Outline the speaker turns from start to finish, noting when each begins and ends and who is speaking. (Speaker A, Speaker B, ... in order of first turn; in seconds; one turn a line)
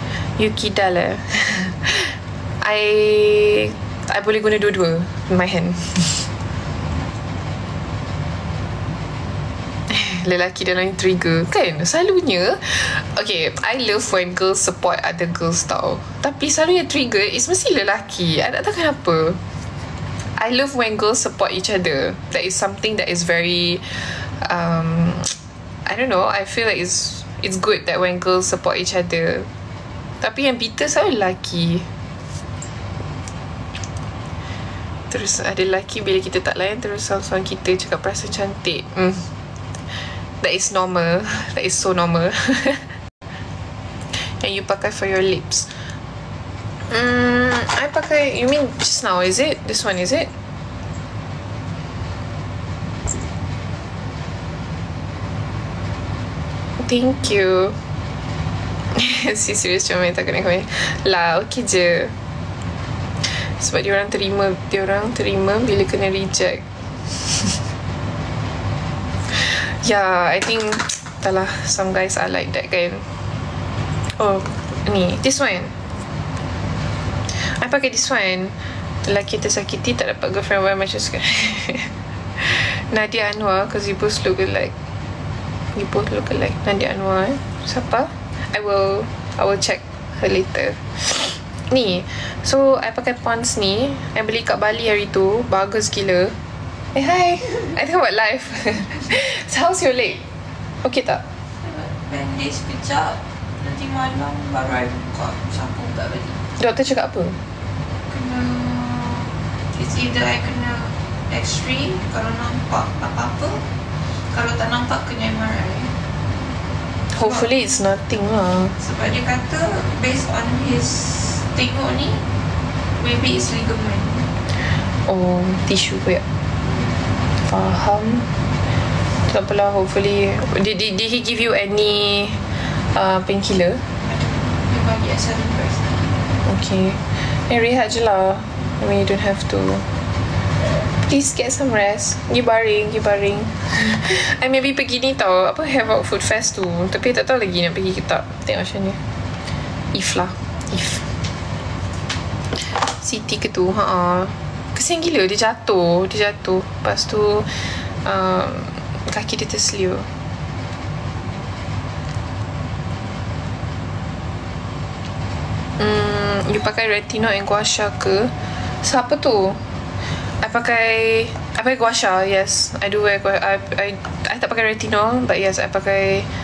Speaker A: 0.4-6.3
Speaker A: 9.9-19.4
Speaker A: 20.4-25.3
Speaker A: 25.9-29.5
Speaker A: 30.2-31.9
Speaker A: 35.1-39.3
Speaker A: 40.4-43.0
Speaker A: 44.1-45.7
Speaker A: 46.9-50.3
Speaker A: 56.8-57.8
Speaker A: 58.9-62.1
Speaker A: 63.2-67.6
Speaker A: 69.3-73.1
Speaker A: 74.2-75.7
Speaker A: 77.3-84.7
Speaker A: 85.7-96.4
Speaker A: 96.9-100.2
Speaker A: 100.8-101.2
Speaker B: 101.6-106.4
Speaker A: 106.6-107.4
Speaker B: 108.1-115.9
Speaker A: 117.1-118.8
Speaker B: 117.2-117.5
Speaker B: 118.8-122.2
Speaker B: 123.0-124.3
Speaker A: 125.0-126.2
Speaker A: 127.4-128.3
Speaker A: 129.3-133.8
Speaker B: 134.0-136.1
Speaker A: 136.4-139.9
Speaker A: 141.0-149.0
Speaker A: 149.9-151.1
Speaker A: 152.8-160.1
Speaker A: 165.8-169.6
Speaker A: 170.4-176.3